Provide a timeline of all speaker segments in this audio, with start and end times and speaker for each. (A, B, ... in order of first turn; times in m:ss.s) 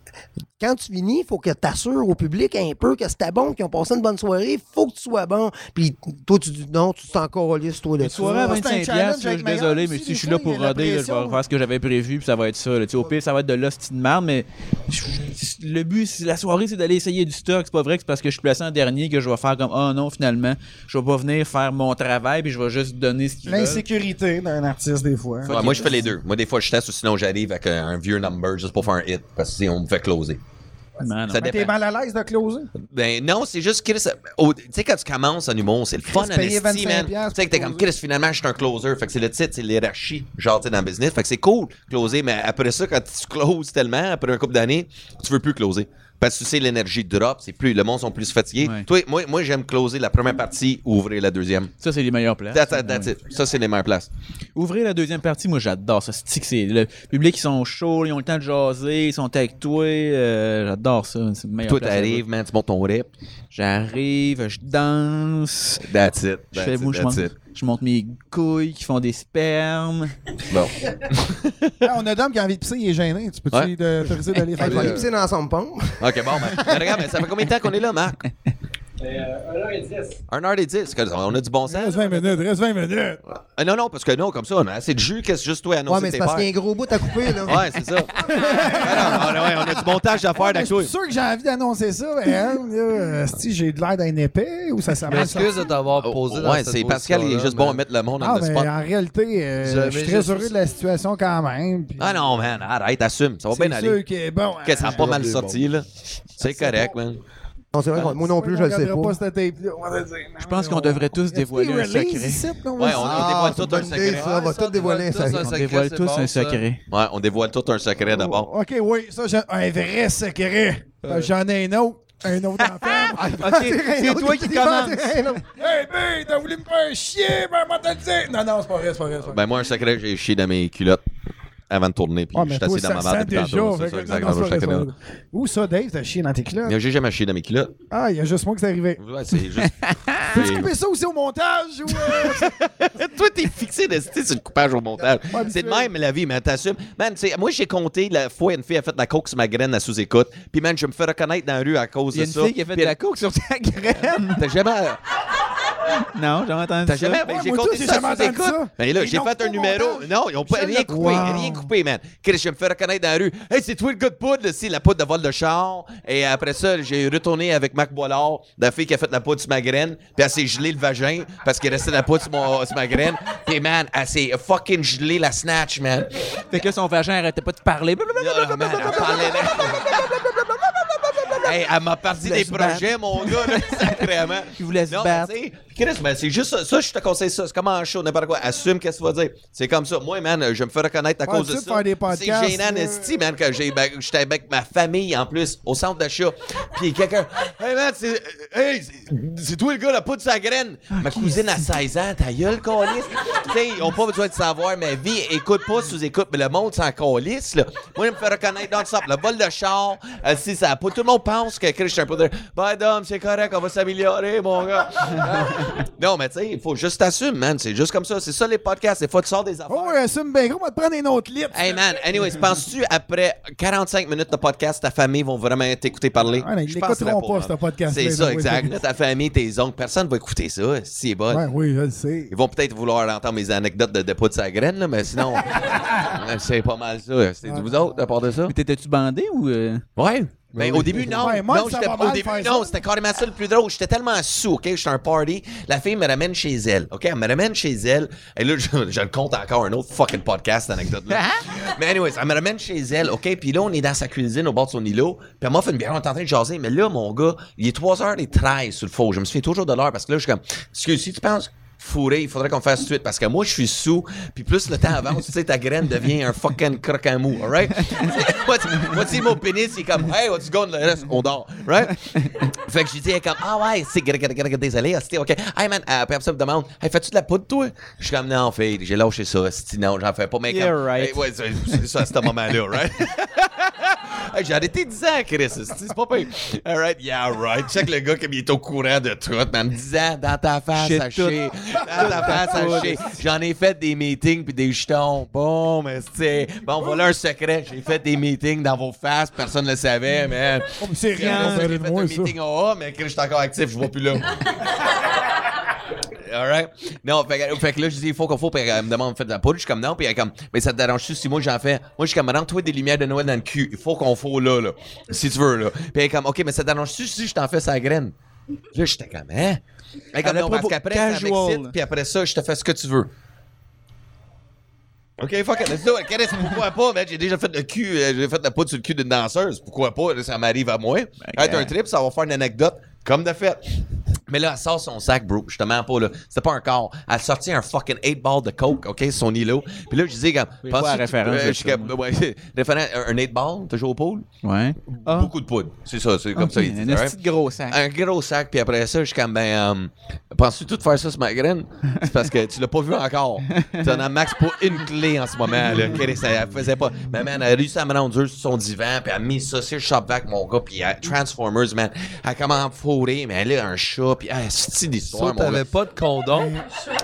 0:00.6-0:08.5 A
0:08.0-0:23.8 B
0:08.2-0:11.4 C
0:23.4-0:26.1 C
0:25.4-0:30.4 D
0:25.5-0:25.8 B
0:31.0-0:31.5 B
0:31.3-0:31.7 D
0:31.4-0:32.7 C
0:32.8-0:51.7 D
0:36.1-0:37.8 C
0:48.6-0:48.9 B
0:51.8-0:53.1 B
0:52.5-0:54.1 D
0:54.5-1:02.2 B
1:01.6-1:03.1 D
1:03.5-1:05.8 B
1:05.8-1:07.3 D
1:06.5-1:10.2 B
1:10.5-1:11.8 D
1:11.8-1:15.1 C
1:14.6-1:17.0 A
1:14.6-1:15.0 E
1:16.0-1:18.2 D
1:19.1-1:19.8 C
1:20.3-1:22.4 D
1:21.6-1:23.2 C
1:23.6-1:26.5 D
1:25.9-1:27.6 A
1:27.2-1:30.9 D
1:28.2-1:35.6 C
1:35.0-1:37.8 E
1:35.9-1:38.7 D
1:38.2-1:42.3 C
1:39.6-1:40.6 E
1:42.0-1:44.0 D
1:43.5-1:45.2 C
1:44.6-1:47.2 D
1:44.9-1:45.6 E
1:46.5-1:46.9 C
1:47.7-1:49.2 A
1:47.9-1:53.3 C
1:50.4-1:52.5 B
1:52.8-1:54.3 D
1:52.8-1:55.5 A
1:54.1-1:56.6 E
1:55.3-1:56.8 B
1:56.9-1:58.5 D
1:58.1-2:03.4 C
2:01.0-2:01.3 E
2:02.6-2:05.2 B
2:03.2-2:05.5 A
2:05.5-2:09.4 C
2:09.2-2:11.0 D
2:11.7-2:14.9 D
2:12.3-2:16.8 C
2:16.6-2:17.8 D
2:17.9-2:19.0 C
2:19.0-2:20.7 D
2:19.6-2:20.2 B
2:20.2-2:22.6 C
2:21.9-2:32.9 D
2:25.3-2:25.9 C
2:32.1-2:34.4 B
2:34.4-2:35.0 D
2:36.1-2:37.2 B
2:36.8-2:56.3 D
2:37.2-2:41.7 C
2:40.9-2:41.3 B
2:56.5-3:01.6 B
2:58.2-3:00.0 D
3:01.4-3:40.0 D
3:02.2-3:05.3 B
3:11.2-3:13.2 C
3:20.9-3:21.6 B
3:39.7-3:42.3 C
3:41.5-3:51.4 D
3:46.4-3:48.7 C
3:51.3-3:52.3 C
3:52.3-3:58.5 D
3:57.4-3:57.9 C
3:58.5-3:59.8 B
4:00.0-5:04.7 D
4:00.5-4:01.4 E
4:01.1-4:02.7 C
4:32.1-4:32.4 B
4:40.5-4:41.8 B
4:50.7-4:53.1 B
5:00.8-5:02.4 C
5:01.2-5:01.7 B
5:06.2-5:18.1 D
5:18.7-5:19.6 D
5:20.1-5:23.1 D
5:20.2-5:21.8 B
5:25.2-5:33.6 D
5:31.2-5:31.7 B
5:34.3-5:44.3 D
5:40.6-5:41.9 B
5:44.4-5:45.3 B
5:44.9-5:47.2 D
5:46.4-5:47.8 B
5:47.7-6:05.6 D
5:53.5-5:54.0 B
6:05.1-6:06.6 E
6:06.3-6:06.6 C